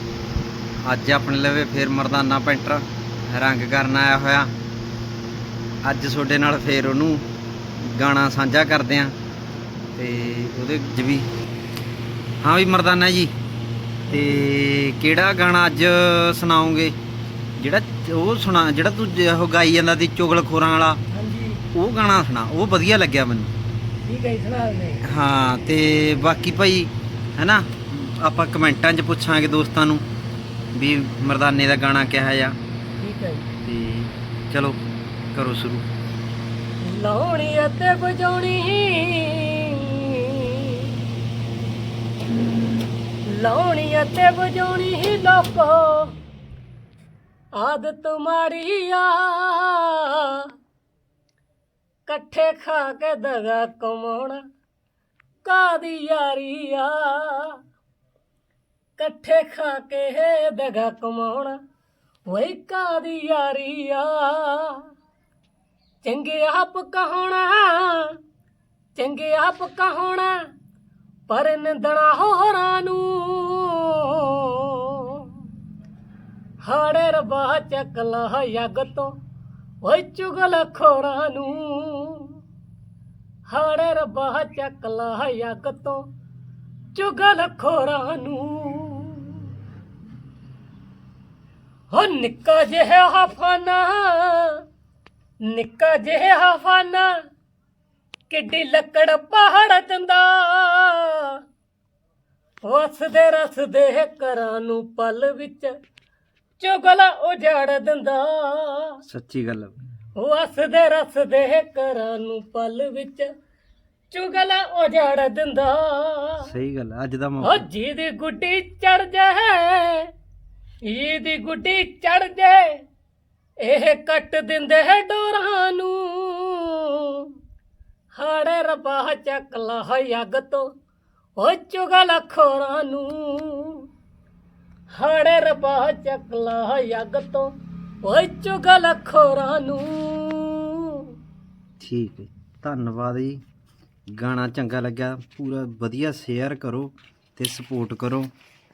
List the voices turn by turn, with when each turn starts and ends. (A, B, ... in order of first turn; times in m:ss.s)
0:00.8-0:04.5 A
0:05.8-0:07.2 A
0:07.8-0:09.1 A
0:10.0-0:11.3 A
0:12.4-0:13.3 A
0:14.1-0:14.5 B
0:14.1-0:16.9 A
0:17.6-0:21.0 A
0:21.1-0:21.6 B
0:21.7-0:23.5 A
0:24.1-0:25.0 B
0:25.0-0:30.0 A
0:30.8-0:32.6 A
0:33.0-0:33.5 B
0:33.6-0:34.8 A
0:35.3-0:35.8 A
0:36.8-0:41.0 B
0:43.3-0:46.1 B
0:47.6-0:50.5 B
0:52.1-0:54.4 B
0:55.4-0:57.6 B
0:59.0-1:01.6 B
1:02.3-1:04.9 B
1:06.0-1:08.2 B
1:09.0-1:10.4 B
1:11.3-1:15.4 B
1:16.6-1:19.1 B
1:19.8-1:22.4 B
1:23.5-1:26.0 B
1:27.0-1:29.5 B
1:31.9-1:34.6 B
1:35.5-1:37.2 B
1:38.3-1:41.4 B
1:42.6-1:45.7 B
1:46.6-1:49.0 B
1:49.1-1:49.7 A
1:50.2-1:53.3 B
1:54.1-1:56.5 B
1:56.4-1:57.7 A
1:57.4-2:00.1 B
2:00.9-2:02.7 B
2:03.6-2:07.3 B
2:08.1-2:10.7 B
2:11.4-2:13.9 B
2:14.9-2:17.5 B
2:18.0-2:21.1 B
2:21.8-2:23.4 A
2:24.1-2:28.3 A